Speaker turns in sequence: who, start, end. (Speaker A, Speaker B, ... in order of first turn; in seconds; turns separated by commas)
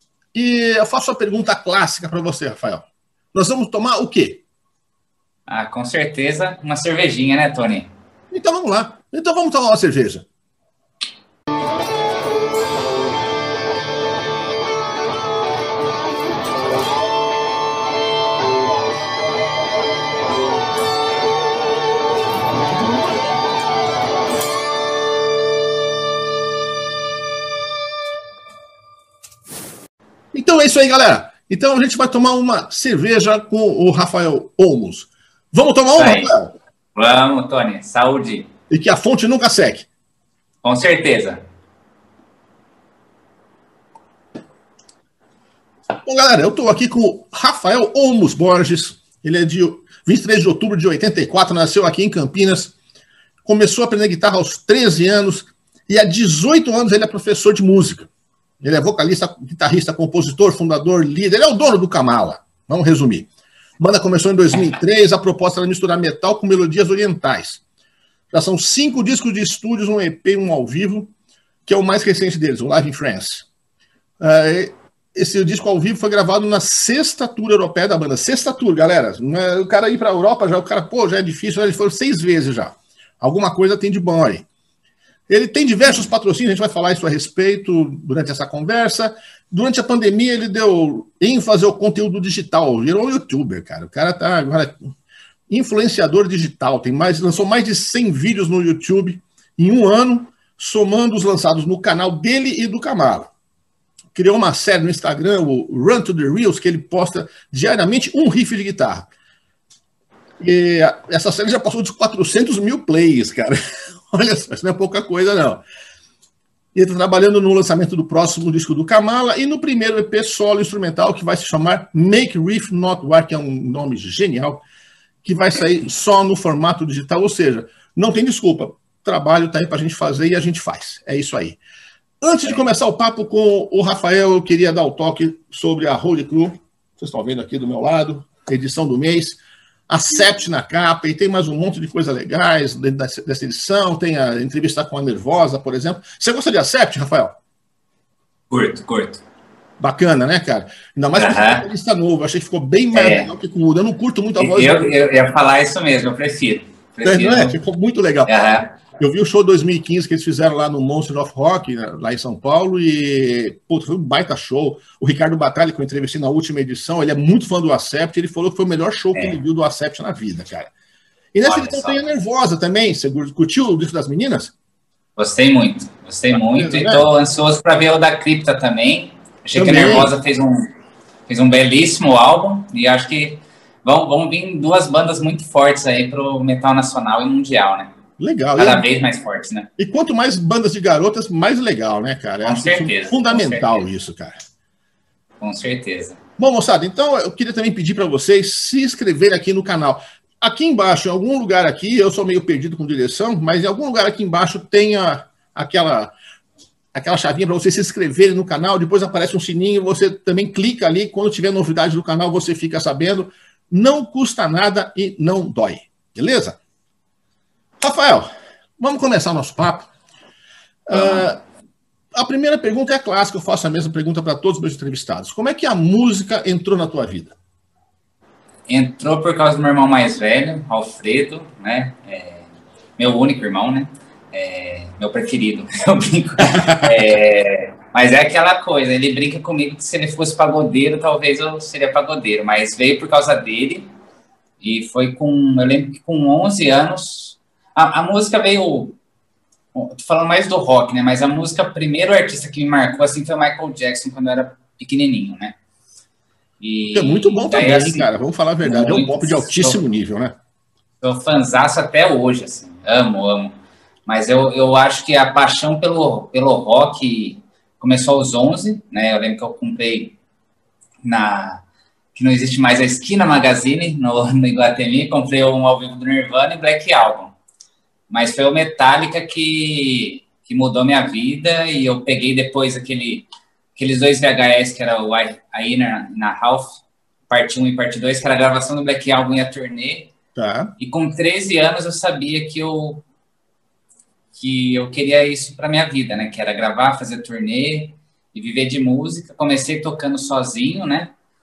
Speaker A: 0.3-4.4, Speaker B: 5.5-7.9, Speaker A: 8.3-10.2, Speaker A: 30.3-36.5, Speaker B: 36.0-36.3, Speaker B: 36.9-38.5, Speaker A: 38.7-39.9, Speaker B: 40.6-41.4, Speaker A: 46.0-52.7, Speaker A: 53.4-58.1, Speaker A: 58.6-67.6, Speaker A: 68.3-71.1, Speaker A: 71.7-73.5, Speaker A: 74.2-84.5, Speaker A: 85.3-94.9, Speaker A: 95.5-103.3, Speaker A: 104.1-109.1, Speaker A: 110.4-115.6, Speaker A: 116.7-124.6, Speaker A: 125.2-131.6, Speaker A: 132.2-147.3, Speaker B: 148.5-149.2, Speaker A: 149.8-154.9, Speaker B: 151.2-151.7, Speaker B: 152.9-153.3, Speaker B: 154.4-157.6, Speaker A: 157.0-158.3, Speaker B: 158.2-158.7, Speaker A: 159.0-170.7, Speaker A: 171.3-174.5, Speaker B: 171.4-172.0, Speaker B: 175.2-180.7, Speaker A: 176.3-177.1, Speaker A: 179.5-180.1, Speaker B: 181.3-187.9, Speaker A: 188.2-188.8, Speaker B: 188.6-189.7, Speaker A: 189.8-194.4, Speaker B: 192.4-193.7, Speaker B: 195.4-196.2, Speaker A: 196.4-206.1, Speaker A: 206.9-216.6, Speaker A: 217.8-219.9, Speaker A: 220.9-221.4, Speaker B: 220.9-221.3, Speaker A: 222.1-227.3, Speaker B: 228.7-243.9, Speaker A: 236.6-236.8, Speaker B: 244.6-249.0, Speaker B: 249.7-255.6, Speaker B: 256.6-258.1, Speaker A: 256.9-260.3, Speaker B: 258.6-259.8, Speaker B: 261.0-270.2, Speaker B: 271.0-271.6, Speaker B: 272.1-277.3, Speaker B: 278.1-290.1, Speaker A: 290.3-290.7, Speaker B: 290.8-293.0, Speaker B: 294.3-301.1